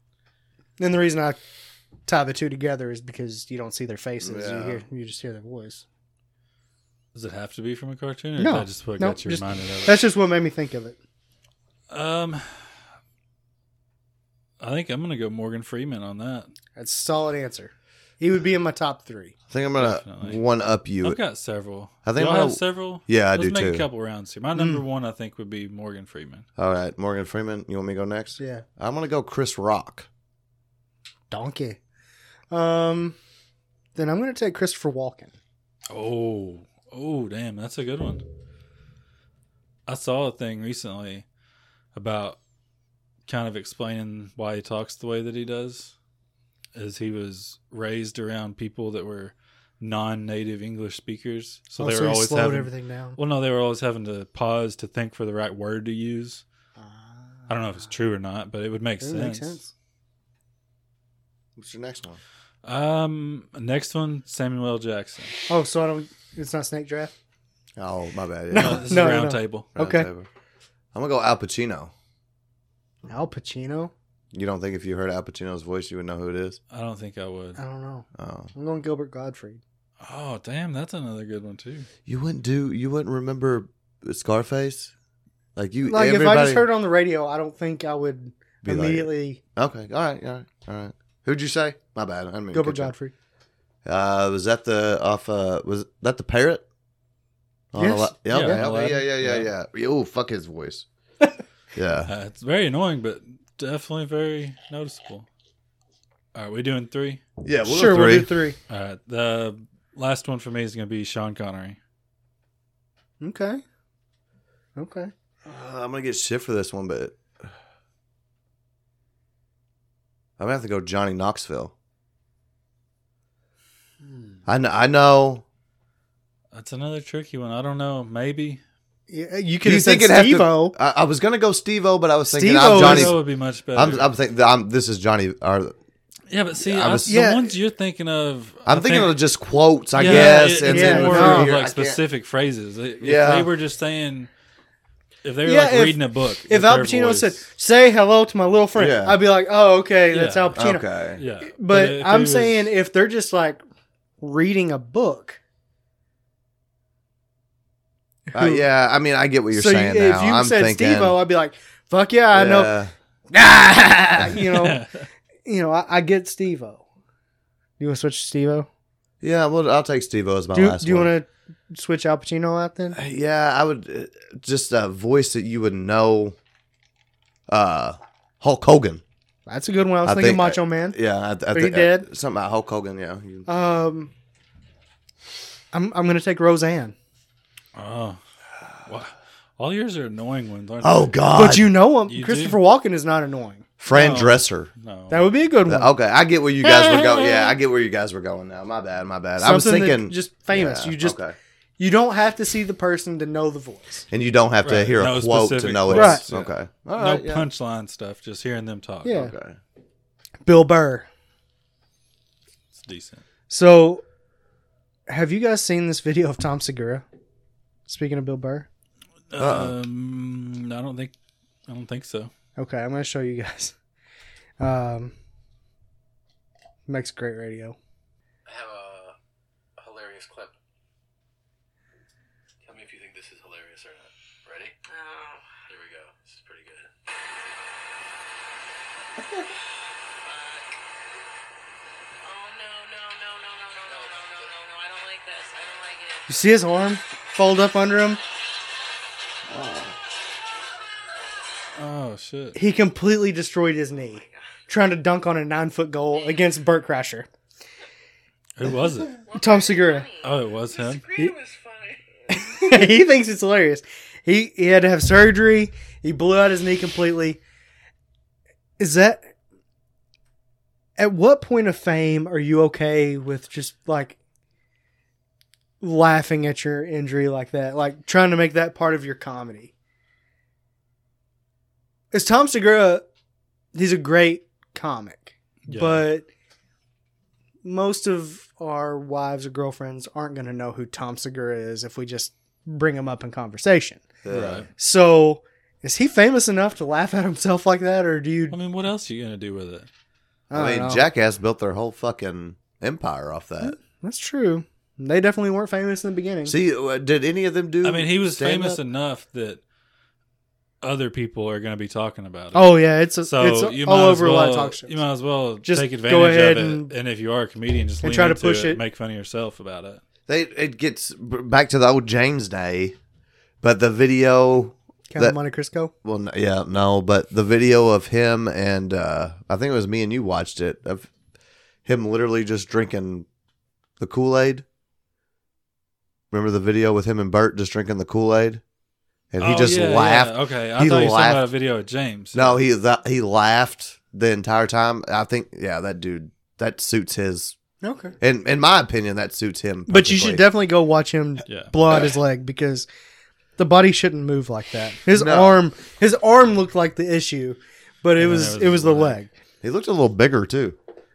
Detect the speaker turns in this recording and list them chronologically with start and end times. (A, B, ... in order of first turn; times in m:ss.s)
0:00.8-0:01.4 A
0:02.0-0:05.8 A
0:04.2-0:04.8 B
0:07.1-0:10.0 C
0:08.4-0:11.0 A
0:11.9-0:12.6 C
0:14.6-0:16.5 C
0:16.7-0:19.3 A
0:19.5-0:21.2 B
0:19.8-0:20.4 C
0:21.0-0:26.4 C
0:22.0-0:23.8 B
0:24.5-0:24.8 A
0:26.6-0:30.1 B
0:28.4-0:28.6 A
0:31.3-0:31.8 A
0:32.5-0:33.2 A
0:33.9-0:35.3 A
0:35.9-0:38.2 C
0:39.9-0:41.2 C
0:41.9-0:42.4 C
0:43.3-0:45.9 C
0:46.7-0:56.4 C
0:51.8-0:53.2 A
0:56.8-0:57.5 A
0:57.5-0:59.6 C
0:59.0-0:59.7 A
1:01.6-1:02.2 B
1:02.6-1:05.4 C
1:05.5-1:07.1 A
1:07.8-1:08.9 B
1:08.5-1:10.1 A
1:08.5-1:09.7 C
1:09.8-1:10.3 B
1:10.9-1:11.9 B
1:13.1-1:13.9 A
1:14.3-1:16.6 B
1:16.7-1:17.6 C
1:17.6-1:19.6 A
1:18.2-1:18.5 B
1:20.0-1:21.9 C
1:22.0-1:24.9 B
1:25.6-1:26.7 B
1:25.8-1:29.4 A
1:28.6-1:32.9 B
1:32.5-1:33.1 A
1:33.8-1:36.6 B
1:37.7-1:40.8 B
1:37.8-1:39.4 A
1:38.3-1:39.0 C
1:41.7-1:42.1 B
1:42.1-1:45.3 C
1:46.3-1:47.2 C
1:47.4-1:48.3 B
1:47.6-1:48.6 A
1:48.7-1:51.8 C
1:53.2-1:53.6 A
1:54.8-1:55.1 A
1:55.4-1:57.5 B
2:00.4-2:01.7 B
2:04.4-2:05.4 B
2:06.5-2:08.6 C
2:09.1-2:10.7 A
2:09.6-2:13.2 B
2:12.3-2:13.1 A
2:12.6-2:14.1 C
2:13.7-2:15.7 B
2:16.3-2:19.1 C
2:16.6-2:17.2 B
2:17.0-2:17.5 A
2:18.6-2:22.0 B
2:20.0-2:24.3 C
2:20.0-2:21.5 A
2:23.0-2:23.5 B
2:25.2-2:27.4 C
2:25.4-2:30.8 A
2:28.7-2:29.2 B
2:30.1-2:30.6 C
2:30.6-2:31.2 B
2:31.2-2:32.7 C
2:31.5-2:33.6 A
2:34.2-2:35.4 A
2:38.3-2:38.6 A
2:38.3-2:41.2 B
2:39.5-2:42.8 A
2:42.3-2:42.9 B
2:43.3-2:44.8 A
2:44.4-2:45.0 C
2:45.4-2:46.8 A
2:47.8-2:48.7 A
2:49.2-2:51.1 B
2:50.5-2:53.0 A
2:52.9-2:56.4 B
2:57.5-2:59.0 B
2:59.5-3:01.0 A
3:00.0-3:03.5 B
3:01.5-3:02.1 A
3:03.4-3:04.1 A
3:05.7-3:06.9 A
3:07.7-3:08.2 C
3:08.8-3:11.1 C
3:10.8-3:11.8 B
3:11.3-3:13.7 A
3:12.1-3:12.6 C
3:13.8-3:14.7 B
3:13.9-3:15.3 C
3:15.1-3:15.9 A
3:15.7-3:21.3 B
3:16.6-3:17.5 A
3:19.4-3:21.2 A
3:21.8-3:24.1 A
3:24.1-3:27.4 B
3:24.6-3:29.2 C
3:25.9-3:26.2 A
3:29.0-3:29.3 A
3:29.1-3:29.6 B
3:30.4-3:31.1 A
3:32.7-3:33.2 C
3:33.5-3:34.0 A
3:35.1-3:37.0 A
3:37.9-3:38.7 A
3:39.3-3:41.1 C
3:39.3-3:39.8 B
3:41.7-3:42.3 C
3:42.6-3:43.7 A
3:44.6-3:45.1 A
3:46.9-3:47.8 A
3:48.4-3:49.1 D
3:49.8-3:50.5 D
3:52.6-3:54.9 D
3:54.9-3:55.6 E
3:55.7-3:57.6 D
3:59.2-3:59.5 B
4:00.2-4:00.7 E
4:02.2-4:06.4 E
4:03.8-4:04.6 D
4:06.3-4:08.2 A
4:09.5-4:09.9 B
4:11.8-4:12.6 C
4:12.5-4:17.3 A
4:18.6-4:19.1 C
4:19.2-4:22.6 E
4:19.3-4:20.1 A
4:20.2-4:21.0 C
4:22.3-4:27.4 A
4:28.8-4:29.2 A
4:31.0-4:34.2 A
4:35.8-4:39.7 A
4:42.1-4:43.0 A
4:43.7-4:46.3 A
4:45.6-4:46.0 C
4:47.6-4:54.0 A
4:54.2-4:54.6 B
4:54.3-4:54.7 C
4:54.8-4:58.6 A
4:58.5-4:59.9 C
5:00.5-5:01.0 A
5:00.5-5:03.8 B
5:03.6-5:06.5 A
5:06.4-5:08.8 B
5:07.8-5:09.6 C
5:10.8-5:20.0 C
5:12.5-5:15.0 A
5:15.6-5:16.9 A
5:18.0-5:18.8 A
5:20.3-5:23.0 B
5:23.6-5:25.4 B
5:25.1-5:25.9 A
5:26.0-5:31.1 B
5:31.8-5:33.2 B
5:34.0-5:34.6 B
5:36.3-5:38.6 B
5:39.3-5:41.4 B
5:39.4-5:42.6 C
5:42.3-5:47.5 B
5:47.8-5:48.2 A
5:48.2-5:50.4 B
5:49.9-5:52.9 A
5:51.4-5:51.7 C
5:53.6-5:59.3 A
5:55.1-5:55.6 B
5:58.2-5:59.2 C
5:59.6-6:00.8 B